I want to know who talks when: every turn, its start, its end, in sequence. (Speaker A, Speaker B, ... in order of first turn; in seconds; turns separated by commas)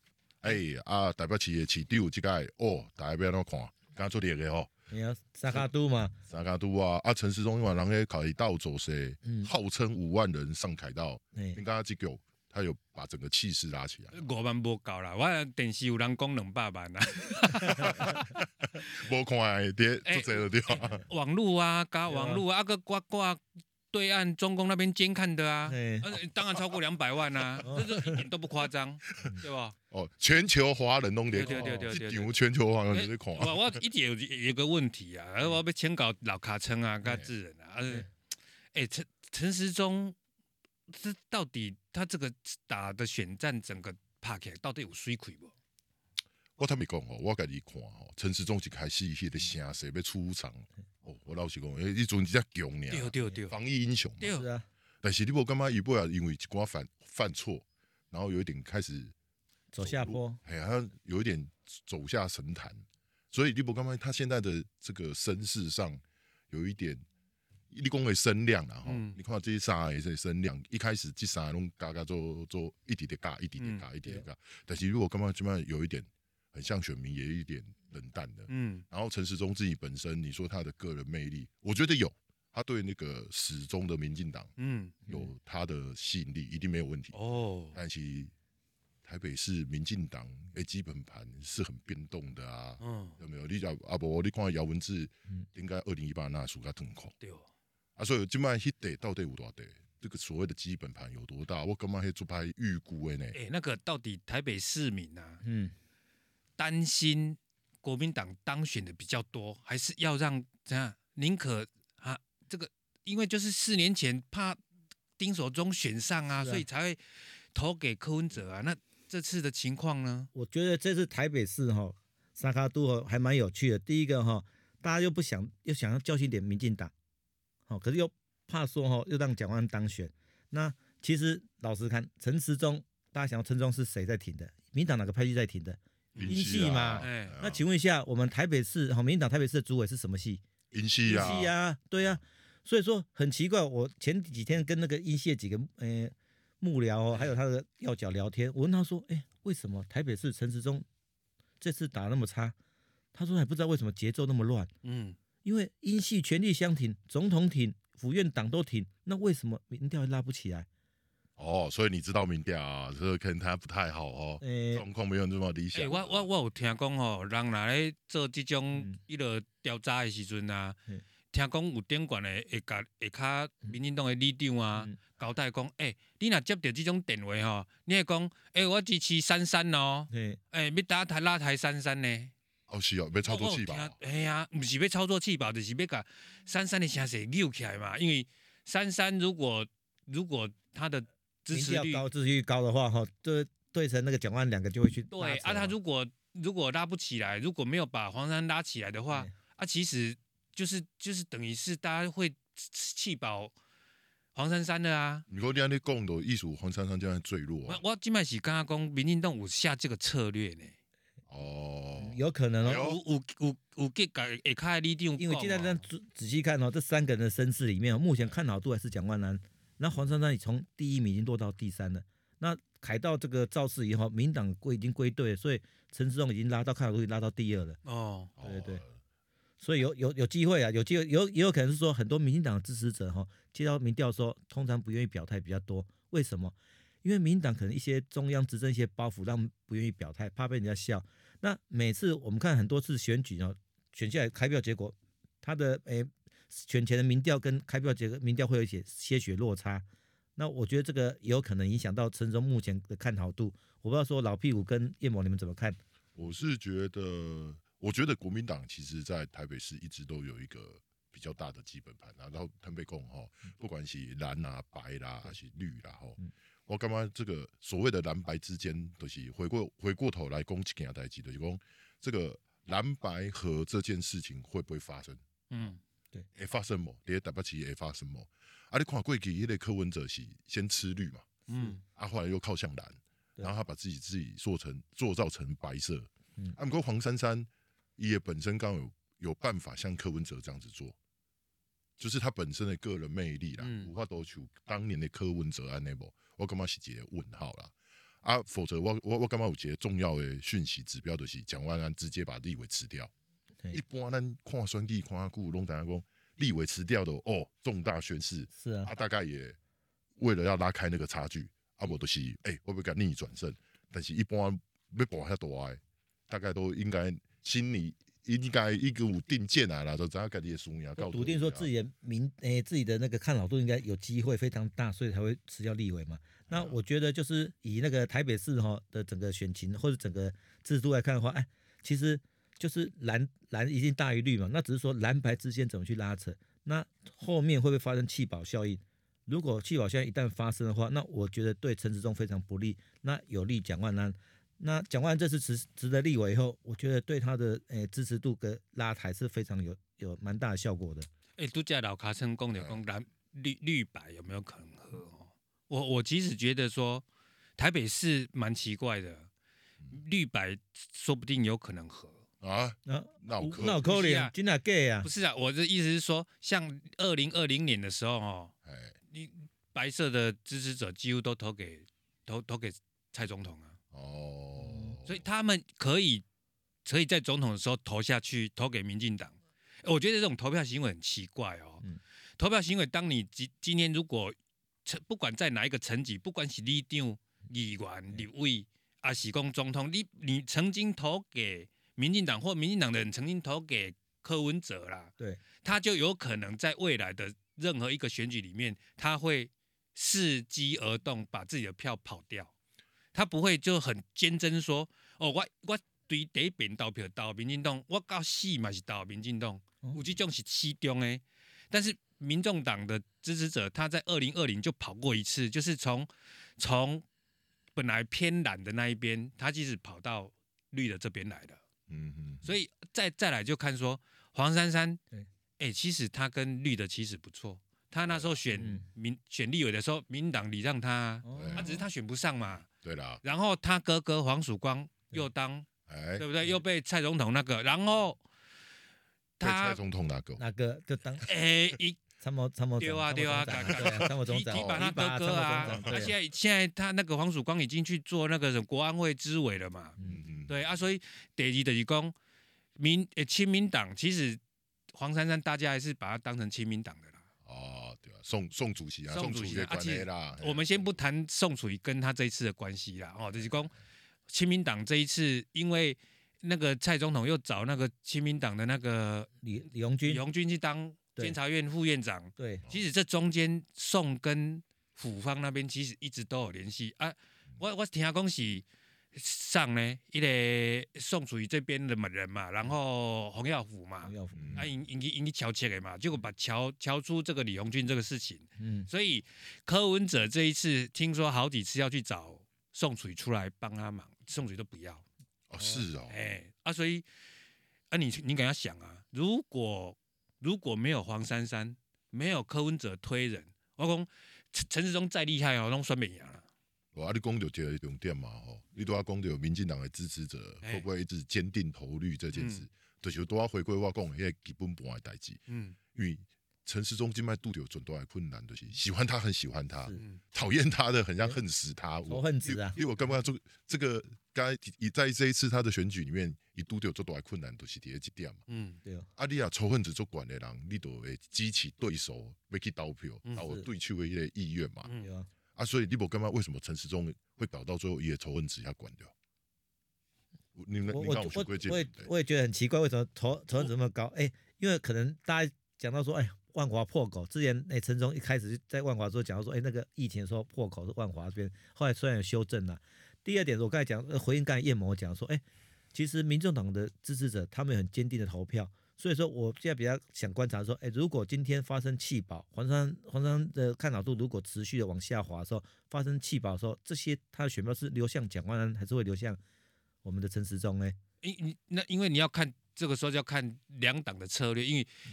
Speaker A: 0.4-4.7, Speaker B: 4.9-6.2, Speaker A: 6.3-14.2, Speaker B: 9.2-9.5, Speaker B: 11.3-11.6, Speaker C: 14.1-18.4, Speaker A: 17.6-21.0, Speaker C: 20.0-29.7, Speaker B: 22.1-22.4, Speaker B: 25.7-26.1, Speaker B: 27.6-28.1, Speaker A: 29.9-33.7, Speaker C: 31.3-32.3, Speaker B: 31.5-31.9, Speaker C: 32.9-38.1, Speaker A: 37.0-37.3, Speaker C: 38.7-40.1, Speaker C: 40.9-45.5, Speaker A: 46.6-54.3, Speaker C: 52.9-53.5, Speaker C: 54.2-54.5, Speaker B: 54.3-54.7, Speaker A: 55.0-59.1, Speaker B: 59.7-60.4, Speaker A: 59.8-67.0, Speaker A: 67.7-84.5, Speaker C: 68.8-69.2, Speaker C: 73.6-73.8, Speaker C: 78.5-78.8, Speaker C: 84.6-85.0, Speaker A: 85.1-87.1, Speaker C: 87.1-87.8, Speaker A: 87.7-88.3, Speaker A: 89.0-97.1, Speaker C: 92.8-93.2, Speaker C: 97.2-97.5, Speaker A: 98.0-103.4, Speaker C: 103.3-105.4, Speaker B: 105.4-105.7, Speaker C: 106.6-114.6, Speaker C: 115.2-117.0, Speaker B: 116.3-116.7, Speaker C: 117.5-120.3, Speaker B: 120.3-126.9, Speaker B: 127.7-140.4, Speaker C: 136.1-136.4, Speaker A: 136.2-137.6, Speaker C: 137.0-137.3, Speaker A: 140.7-141.5, Speaker B: 141.0-150.8, Speaker B: 151.6-152.5, Speaker B: 153.1-154.7, Speaker C: 154.8-155.2, Speaker B: 155.4-160.7, Speaker A: 161.4-166.3, Speaker B: 164.4-164.8, Speaker C: 165.7-170.8, Speaker C: 171.3-182.3, Speaker B: 180.1-180.4, Speaker A: 182.7-183.9, Speaker C: 183.2-192.1, Speaker B: 191.5-195.8, Speaker C: 195.1-203.5, Speaker C: 204.3-205.2, Speaker A: 205.3-207.8, Speaker C: 207.7-210.7, Speaker A: 211.3-213.0, Speaker B: 212.0-212.8, Speaker C: 212.6-215.8, Speaker B: 215.2-227.8, Speaker C: 227.8-228.3, Speaker A: 228.4-229.0, Speaker B: 228.4-228.8, Speaker B: 229.6-249.8, Speaker B: 250.4-255.8, Speaker A: 256.1-275.2, Speaker C: 275.5-275.8, Speaker A: 276.4-281.3, Speaker C: 281.5-281.8, Speaker A: 281.9-290.9, Speaker A: 292.0-303.1, Speaker C: 293.6-293.9, Speaker A: 303.7-309.6, Speaker B: 308.6-308.9, Speaker A: 310.2-321.7, Speaker B: 321.0-351.1, Speaker A: 326.5-326.7, Speaker C: 351.4-357.0, Speaker C: 357.6-359.3, Speaker C: 359.9-362.2, Speaker A: 362.4-363.8, Speaker B: 362.9-365.1, Speaker C: 363.4-364.3, Speaker C: 365.0-368.5, Speaker A: 368.6-368.9, Speaker C: 369.1-373.8, Speaker A: 373.9-375.2, Speaker B: 374.6-375.0, Speaker C: 375.1-376.2, Speaker C: 376.8-381.8, Speaker C: 382.4-402.5, Speaker C: 403.1-417.0, Speaker C: 417.7-421.6, Speaker A: 421.9-422.5, Speaker C: 422.4-425.0, Speaker C: 425.6-432.6, Speaker A: 428.1-428.4, Speaker B: 428.6-428.9, Speaker B: 431.2-431.8, Speaker A: 431.3-431.8, Speaker A: 432.6-433.2, Speaker C: 433.2-438.2, Speaker A: 435.9-436.2, Speaker C: 439.4-439.8, Speaker A: 439.4-440.4, Speaker B: 440.4-441.3, Speaker C: 441.2-442.0, Speaker B: 442.2-446.1, Speaker C: 442.8-449.9, Speaker A: 443.6-444.0, Speaker A: 444.5-444.9, Speaker A: 445.5-446.1, Speaker A: 450.0-450.6, Speaker C: 450.5-452.1, Speaker C: 452.8-454.4, Speaker C: 454.9-457.2, Speaker A: 457.4-460.9, Speaker C: 459.1-463.7, Speaker C: 464.3-469.3, Speaker B: 469.4-470.2, Speaker C: 470.1-495.0, Speaker B: 472.4-472.6, Speaker B: 484.0-484.6, Speaker A: 484.4-484.7, Speaker B: 488.6-488.9, Speaker A: 495.5-496.2, Speaker B: 495.6-495.9, Speaker C: 496.1-497.0, Speaker C: 497.9-506.4, Speaker A: 506.9-515.4, Speaker C: 512.3-512.6, Speaker C: 515.5-515.8, Speaker A: 515.9-528.4, Speaker C: 520.0-520.2, Speaker B: 522.1-522.8, Speaker C: 528.5-528.8, Speaker B: 528.8-529.1, Speaker A: 529.2-534.9, Speaker C: 534.8-535.1, Speaker B: 535.0-535.3, Speaker A: 535.5-539.1, Speaker A: 540.5-542.1, Speaker B: 540.9-555.4, Speaker B: 555.9-569.4, Speaker B: 570.0-571.0, Speaker C: 571.2-574.9